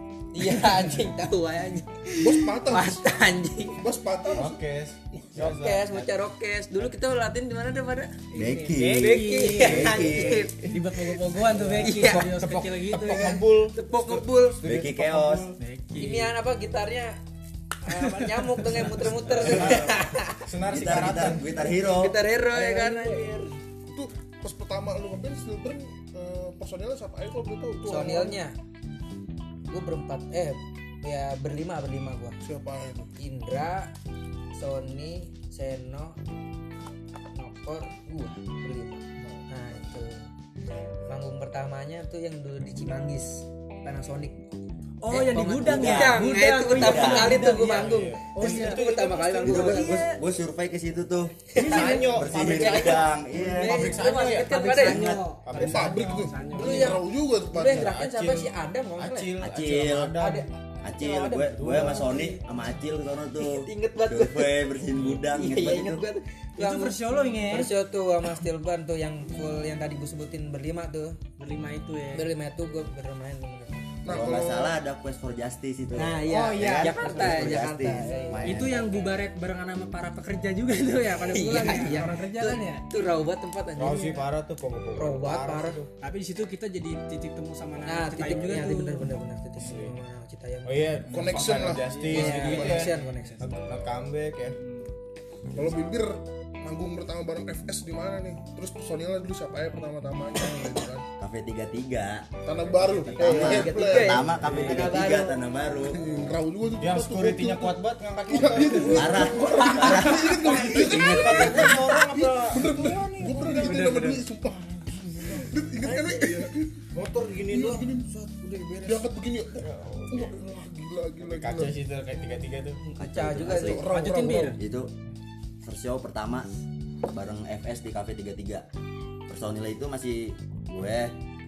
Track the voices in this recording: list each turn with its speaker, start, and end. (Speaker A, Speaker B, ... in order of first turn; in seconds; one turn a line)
Speaker A: 0.3-3.8
Speaker B: 2.2-3.1
Speaker B: 3.8-5.4
Speaker C: 4.3-6.1
Speaker A: 5.4-8.2
Speaker D: 8.3-13.4
Speaker E: 8.3-10.5
Speaker A: 9.0-10.8
Speaker C: 11.4-15.6
Speaker A: 11.8-12.3
Speaker A: 13.0-14.6
Speaker E: 14.6-15.5
Speaker D: 15.6-16.4
Speaker A: 16.0-17.2
Speaker A: 17.8-20.4
Speaker D: 17.9-19.6
Speaker C: 19.1-21.5
Speaker E: 19.4-19.9
Speaker E: 20.7-22.2
Speaker A: 21.8-23.5
Speaker D: 22.5-23.4
Speaker B: 23.9-28.4
Speaker A: 27.9-28.6
Speaker A: 29.7-32.4
Speaker B: 32.4-33.1
Speaker A: 33.2-33.9
Speaker A: 34.5-36.2
Speaker A: 37.3-40.3
Speaker B: 39.2-39.8
Speaker A: 41.0-44.5
Speaker D: 45.0-50.2
Speaker A: 45.1-50.0
Speaker E: 45.4-47.5
Speaker C: 47.2-49.9
Speaker E: 49.6-54.0
Speaker C: 51.6-56.4
Speaker A: 51.6-55.1
Speaker D: 51.6-52.3
Speaker D: 54.5-57.1
Speaker E: 54.8-55.2
Speaker B: 55.6-57.9
Speaker A: 56.4-59.4
Speaker C: 57.6-60.5
Speaker E: 59.4-60.2
Speaker A: 60.2-62.4
Speaker E: 60.8-66.0
Speaker C: 61.3-62.2
Speaker A: 63.4-67.0
Speaker D: 66.6-67.8
Speaker A: 67.5-71.2
Speaker D: 71.4-72.3
Speaker A: 72.1-73.8
Speaker B: 74.0-74.8
Speaker E: 74.1-78.9
Speaker A: 76.0-79.0
Speaker D: 76.2-77.6
Speaker D: 78.4-82.9
Speaker A: 81.0-84.3
Speaker C: 83.8-85.9
Speaker A: 85.0-85.8
Speaker D: 86.0-89.1
Speaker A: 87.9-93.5
Speaker C: 88.2-88.7
Speaker C: 89.6-90.0
Speaker C: 90.7-94.6
Speaker D: 91.1-93.7
Speaker B: 91.1-92.9
Speaker D: 94.5-94.9
Speaker B: 95.5-101.0
Speaker E: 101.2-102.3
Speaker B: 102.4-104.4
Speaker D: 102.7-103.7
Speaker E: 103.2-106.0
Speaker A: 103.2-105.4
Speaker C: 104.5-104.8
Speaker B: 105.8-116.9
Speaker C: 106.8-109.4
Speaker E: 108.9-111.7
Speaker C: 110.1-114.0
Speaker D: 113.6-114.2
Speaker C: 116.9-120.5
Speaker B: 117.5-118.1
Speaker B: 118.8-121.8
Speaker C: 121.2-122.8
Speaker A: 122.8-123.8
Speaker E: 123.0-123.9
Speaker B: 123.4-124.6
Speaker D: 123.9-124.6
Speaker E: 124.4-124.9
Speaker E: 125.6-126.5
Speaker E: 127.1-128.7
Speaker E: 129.3-131.1